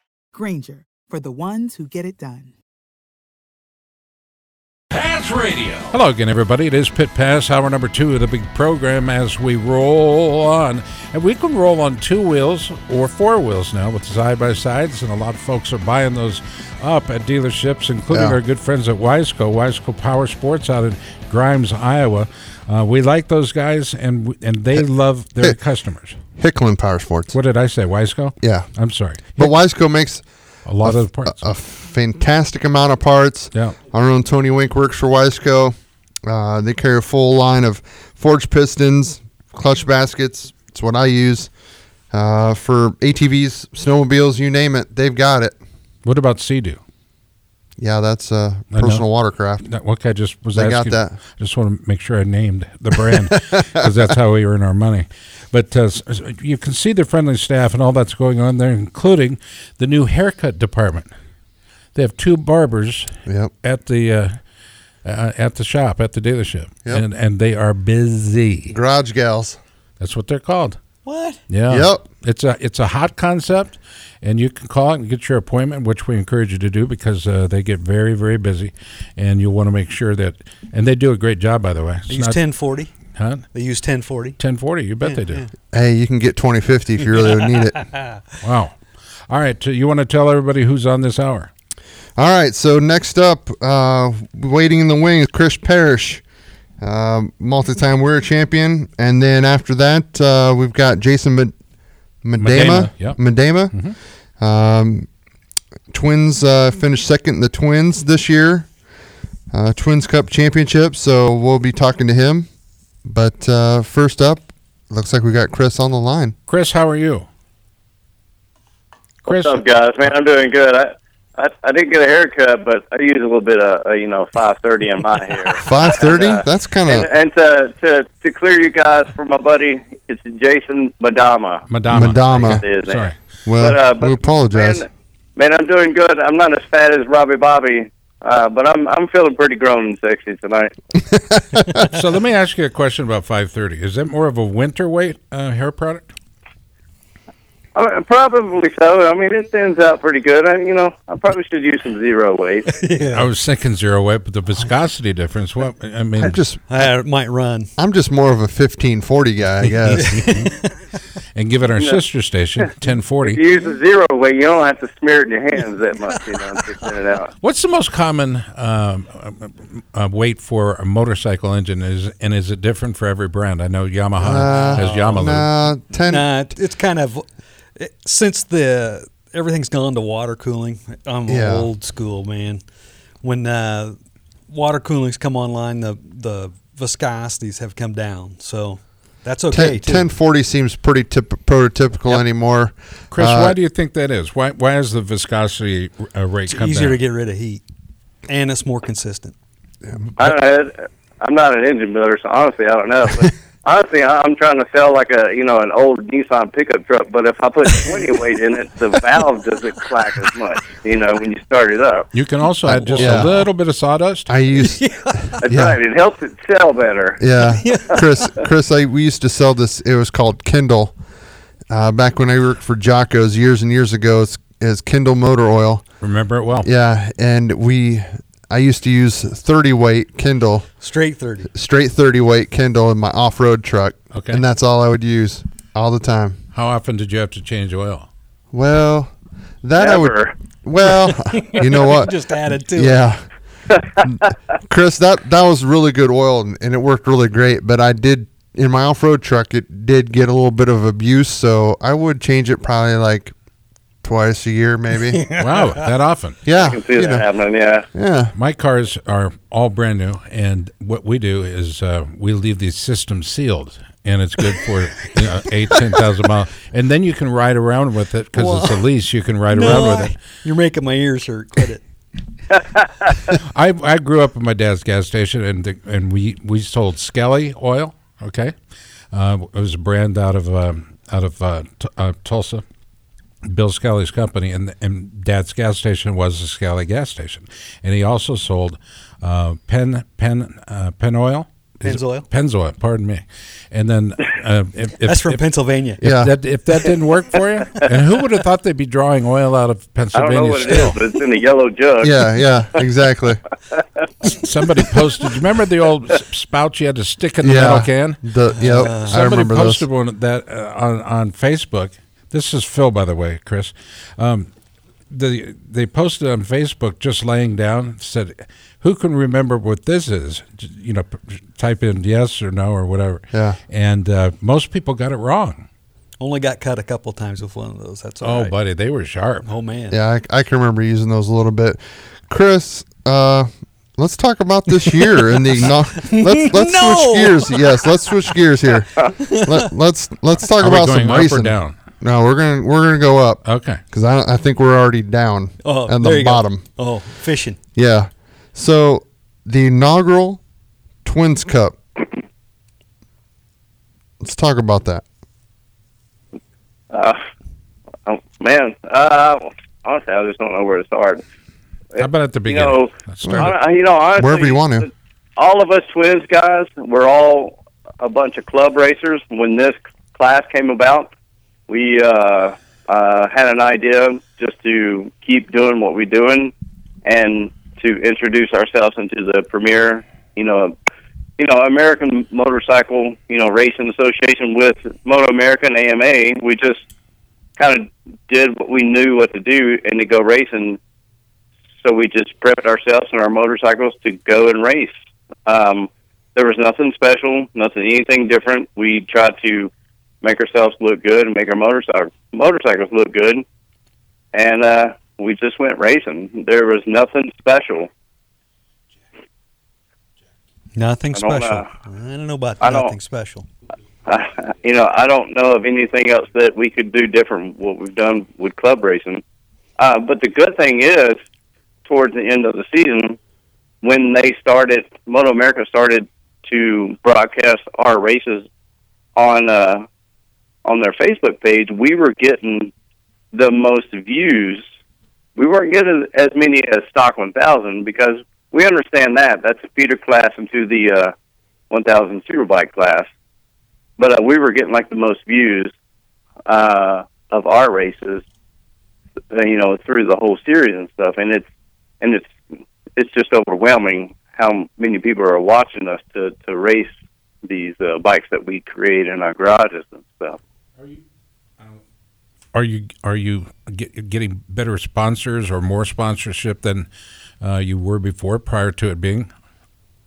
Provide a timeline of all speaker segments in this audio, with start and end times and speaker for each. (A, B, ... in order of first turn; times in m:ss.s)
0:00.3-0:02.5 A
0:04.9-0:26.2 B
0:18.1-0:18.4 C
0:26.4-0:27.4 C
0:27.3-0:29.5 B
0:28.4-0:28.7 C
0:29.3-0:30.2 C
0:30.6-0:31.4 B
0:30.8-0:41.5 C
0:42.1-0:45.6 C
0:46.0-0:46.8 B
0:47.8-0:49.6 C
0:48.7-0:49.1 B
0:49.6-1:01.1 B
0:50.5-0:51.2 C
0:52.9-0:53.9 C
1:01.9-1:03.1 B
1:03.6-1:04.4 B
1:05.0-1:08.7 B
1:08.7-1:09.6 C
1:10.0-1:10.8 B
1:11.0-1:11.4 D
1:11.5-1:22.4 B
1:11.7-1:12.1 C
1:22.1-1:22.9 D
1:23.1-1:23.4 B
1:23.5-1:24.4 D
1:24.4-1:25.4 B
1:25.0-1:25.5 D
1:25.7-1:27.8 C
1:27.8-1:28.2 D
1:28.4-1:28.8 B
1:29.3-1:31.5 B
1:32.2-1:36.2 C
1:36.8-1:41.5 C
1:42.2-1:43.9 C
1:42.4-1:43.2 B
1:43.7-1:44.0 B
1:44.4-1:45.1 C
1:45.9-1:48.7 C
1:49.5-1:52.5 C
1:53.0-1:56.3 C
1:56.5-1:57.2 B
1:59.2-1:59.6 B
1:59.3-2:11.7 E
2:05.6-2:07.1 C
2:11.7-2:13.2 B
2:11.9-2:12.6 C
2:12.4-2:20.7 E
2:13.4-2:14.8 C
2:21.1-2:21.9 C
2:21.8-2:26.1 B
2:27.7-2:32.7 E
2:32.7-2:33.3 D
2:33.1-2:36.4 B
2:36.2-2:36.6 C
2:36.7-2:37.7 D
2:37.8-2:40.3 C
2:39.9-2:40.7 D
2:39.9-2:40.5 B
2:41.3-2:43.4 B
2:43.2-2:47.3 E
2:47.4-2:55.5 B
2:54.2-2:56.3 C
2:54.4-2:55.3 D
2:56.1-3:02.6 D
3:01.3-3:01.7 C
3:03.2-3:04.0 D
3:04.5-3:10.1 D
3:09.5-3:13.6 C
3:13.1-3:17.0 B
3:16.5-3:17.6 D
3:18.3-3:19.3 D
3:19.8-3:20.1 C
3:20.2-3:32.1 E
3:27.8-3:28.2 D
3:32.1-3:34.3 B
3:32.7-3:33.4 C
3:34.3-3:35.8 C
3:34.6-3:35.4 D
3:35.4-3:37.2 E
3:37.2-3:41.0 C
3:37.6-3:38.0 D
3:41.7-3:45.8 C
3:46.0-3:46.7 B
3:46.6-3:50.7 C
3:50.8-3:51.5 D
3:51.5-3:56.4 C
3:54.1-3:54.4 B
3:56.5-3:58.1 B
3:58.5-4:02.1 C
3:59.8-4:00.3 E
4:00.8-4:03.0 D
4:02.7-4:03.2 C
4:04.0-4:13.3 C
4:14.0-4:15.3 C
4:15.3-4:15.8 D
4:15.4-4:16.4 B
4:16.4-4:17.2 C
4:16.6-4:17.9 E
4:17.9-4:18.3 C
4:18.3-4:30.2 B
4:28.3-4:28.8 D
4:29.5-4:31.8 D
4:32.8-4:33.3 E
4:33.3-4:38.5 B
4:39.1-4:42.6 B
4:43.4-4:55.5 B
4:51.8-4:52.3 D
4:55.0-4:56.0 D
4:56.0-4:56.3 C
4:56.0-5:01.0 B
5:00.1-5:02.2 E
5:02.0-5:03.4 C
5:04.4-5:08.2 B
5:07.4-5:09.8 C
5:08.5-5:09.2 D
5:08.9-5:14.5 B
5:15.1-5:25.6 B
5:23.3-5:23.6 C
5:26.2-5:28.5 D
5:28.2-5:29.5 B
5:29.4-5:30.0 D
5:29.9-5:46.6 C
5:34.9-5:35.2 D
5:36.0-5:37.9 D
5:39.2-5:39.7 D
5:40.6-5:41.7 B
5:43.4-5:43.8 B
5:45.6-5:47.6 D
5:47.7-5:50.4 C
5:51.0-5:51.8 C
5:54.2-5:55.0 C
5:56.9-5:57.2 E
5:58.0-6:01.2 E
6:01.9-6:11.1 E
6:02.0-6:03.6 B
6:03.2-6:03.5 C
6:04.2-6:04.9 C
6:11.7-6:16.5 E
6:17.0-6:20.7 E
6:21.4-6:26.8 E
6:27.6-6:30.8 E
6:31.8-6:34.9 E
6:35.4-6:39.7 E
6:40.2-6:43.4 E
6:44.3-6:47.9 E
6:50.7-6:53.4 D
6:51.1-6:51.7 E
6:52.6-6:52.9 E
6:54.1-6:59.2 E
6:59.8-7:01.2 E
7:01.8-7:03.2 E
7:03.8-7:08.4 E
7:09.2-7:09.8 E
7:10.6-7:12.7 E
7:13.3-7:14.6 E
7:15.4-7:21.1 E
7:21.7-7:23.1 E
7:24.0-7:25.7 E
7:26.5-7:28.2 E
7:29.3-7:31.4 E
7:32.0-7:32.3 E
7:33.0-7:36.9 E
7:37.4-7:40.4 E
7:40.8-7:41.0 B
7:42.5-7:46.9 B
7:47.4-7:49.3 B